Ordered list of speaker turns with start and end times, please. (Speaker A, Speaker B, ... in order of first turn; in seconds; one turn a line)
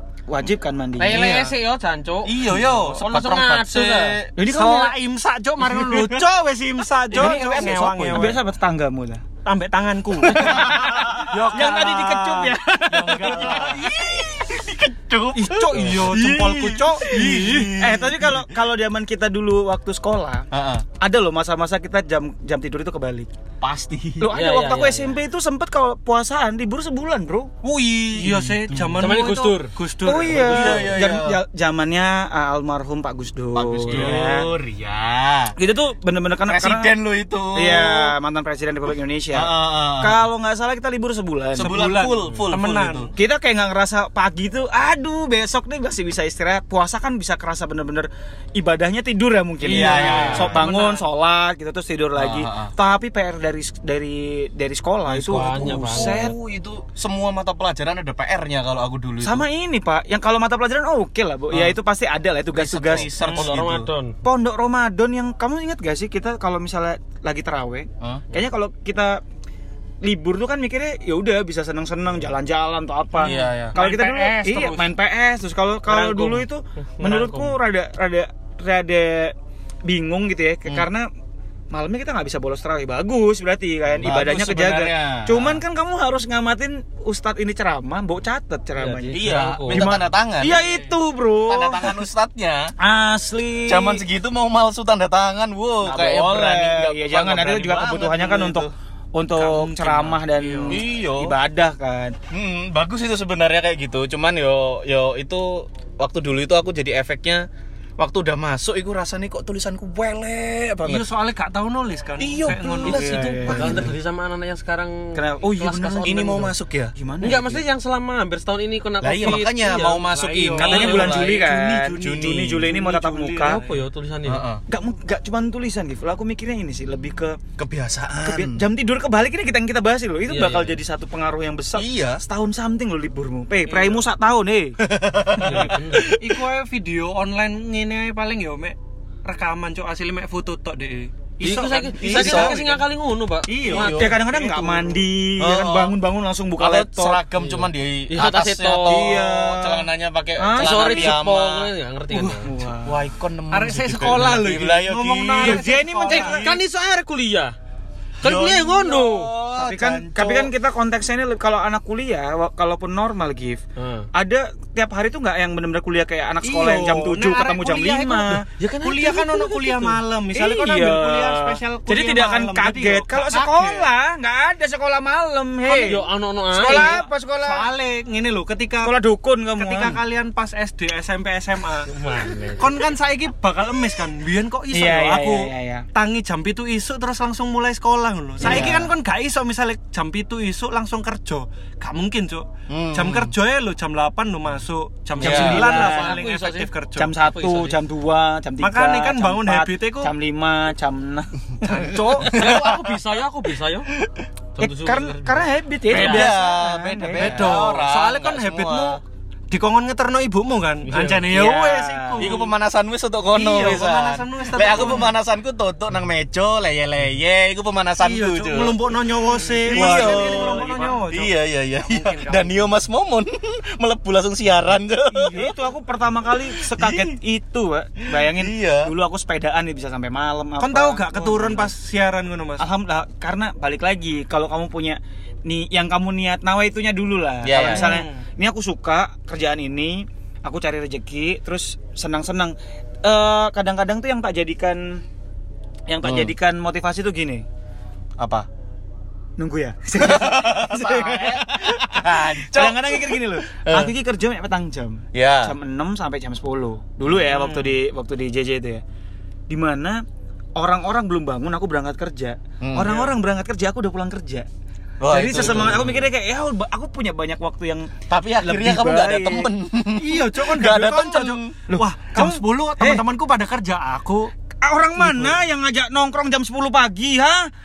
Speaker A: 0.3-1.3
Speaker B: 1.0-4.2
Speaker C: 1.0-1.5
Speaker C: 2.2-4.3
Speaker A: 4.3-4.9
Speaker D: 4.4-8.4
Speaker C: 5.9-6.1
Speaker C: 7.1-8.3
Speaker A: 7.1-9.2
Speaker D: 9.4-13.9
Speaker A: 10.2-13.8
Speaker C: 10.3-11.2
Speaker C: 13.2-18.5
Speaker D: 15.3-17.8
Speaker A: 17.7-20.5
Speaker C: 20.5-20.9
Speaker A: 21.0-23.3
Speaker C: 23.6-24.3
Speaker A: 24.2-27.5
Speaker B: 24.3-25.2
Speaker C: 27.6-29.1
Speaker D: 28.1-30.9
Speaker B: 29.0-29.7
Speaker A: 30.0-34.5
Speaker C: 30.3-31.4
Speaker C: 33.5-35.5
Speaker D: 33.9-34.2
Speaker A: 35.6-36.9
Speaker C: 36.5-38.1
Speaker A: 37.5-41.7
Speaker C: 39.3-40.3
Speaker C: 41.5-43.1
Speaker D: 41.6-43.1
Speaker A: 43.1-56.3
Speaker D: 49.6-51.0
Speaker C: 49.6-50.7
Speaker B: 50.0-50.4
Speaker C: 52.1-52.7
Speaker B: 55.1-56.3
Speaker C: 55.3-59.5
Speaker A: 59.2-63.1
Speaker C: 61.5-61.8
Speaker C: 62.5-63.9
Speaker D: 63.1-63.5
Speaker B: 63.2-64.2
Speaker A: 64.2-69.2
Speaker C: 68.0-68.3
Speaker A: 70.0-79.3
Speaker C: 73.2-73.8
Speaker D: 73.3-74.9
Speaker B: 75.9-76.4
Speaker B: 77.0-77.5
Speaker A: 79.8-81.1
Speaker A: 81.7-92.0
Speaker C: 84.0-85.6
Speaker B: 88.8-89.9
Speaker C: 89.1-90.6
Speaker D: 90.5-90.9
Speaker C: 91.4-92.7
Speaker A: 92.8-94.0
Speaker C: 93.7-98.7
Speaker A: 95.8-102.2
Speaker D: 99.3-100.8
Speaker C: 100.7-101.3
Speaker C: 102.3-107.5
Speaker C: 108.0-111.1
Speaker D: 110.8-113.5
Speaker C: 112.2-113.9
Speaker A: 112.8-113.9
Speaker B: 112.9-116.5
Speaker A: 115.2-117.6
Speaker C: 115.6-116.9
Speaker B: 117.2-121.1
Speaker C: 119.0-123.5
Speaker D: 120.2-121.3
Speaker A: 120.6-123.6
Speaker B: 123.4-124.4
Speaker D: 123.5-123.8
Speaker C: 124.2-124.6
Speaker A: 124.7-127.4
Speaker C: 127.6-128.6
Speaker A: 128.2-134.8
Speaker B: 130.3-130.8
Speaker C: 131.7-132.2
Speaker D: 133.7-134.1
Speaker C: 134.8-136.2
Speaker B: 135.3-136.1
Speaker D: 136.0-142.8
Speaker B: 141.4-144.2
Speaker C: 142.0-142.6
Speaker D: 143.4-145.0
Speaker C: 143.6-144.2
Speaker A: 143.7-147.2
Speaker C: 145.4-146.0
Speaker C: 146.6-151.7
Speaker B: 147.4-149.2
Speaker A: 148.8-149.9
Speaker A: 150.4-151.2
Speaker B: 150.5-152.5
Speaker D: 152.1-152.7
Speaker A: 152.4-153.0
Speaker C: 152.8-155.6
Speaker D: 153.5-156.5
Speaker A: 155.4-156.6
Speaker B: 156.1-157.5
Speaker B: 158.2-159.3
Speaker C: 158.2-160.5
Speaker A: 159.6-163.6
Speaker B: 163.8-164.1
Speaker A: 164.1-177.7
Speaker D: 166.4-173.9
Speaker D: 175.7-175.9
Speaker B: 175.7-177.0
Speaker D: 176.5-178.9
Speaker A: 178.8-180.0
Speaker D: 179.6-181.9
Speaker B: 181.9-182.7
Speaker D: 182.6-197.2
Speaker A: 184.7-185.8
Speaker A: 188.4-188.9
Speaker C: 188.4-188.9
Speaker C: 192.7-193.3
Speaker C: 195.2-196.7
Speaker A: 195.2-196.2
Speaker B: 195.4-196.0
Speaker A: 196.9-202.2
Speaker B: 197.2-197.8
Speaker D: 198.6-200.1
Speaker D: 201.6-202.3
Speaker B: 202.2-203.9
Speaker C: 202.2-203.0
Speaker C: 204.0-204.2
Speaker B: 204.6-205.4
Speaker A: 204.6-207.6
Speaker C: 205.9-209.0
Speaker B: 205.9-206.2
Speaker D: 207.1-212.5
Speaker B: 210.8-211.3
Speaker A: 211.3-212.4
Speaker C: 212.2-218.8
Speaker D: 213.3-215.1
Speaker D: 218.0-222.7
Speaker A: 219.6-220.9
Speaker C: 219.6-225.4
Speaker D: 225.1-225.5
Speaker A: 225.3-231.7
Speaker C: 226.5-227.2
Speaker C: 228.1-228.9
Speaker D: 230.6-232.7
Speaker A: 232.6-245.0
Speaker C: 237.4-237.9
Speaker D: 237.5-238.2
Speaker A: 245.9-247.4
Speaker C: 246.0-246.3
Speaker C: 248.2-248.5
Speaker A: 249.4-258.8
Speaker C: 250.0-253.9
Speaker C: 255.1-255.5
Speaker C: 257.1-257.7
Speaker A: 259.5-260.0
Speaker A: 260.6-264.4
Speaker C: 262.6-263.1
Speaker C: 265.0-266.1
Speaker A: 265.1-269.5
Speaker C: 268.1-271.5
Speaker D: 270.0-274.3
Speaker A: 271.7-273.0
Speaker A: 274.6-277.5
Speaker D: 275.0-275.4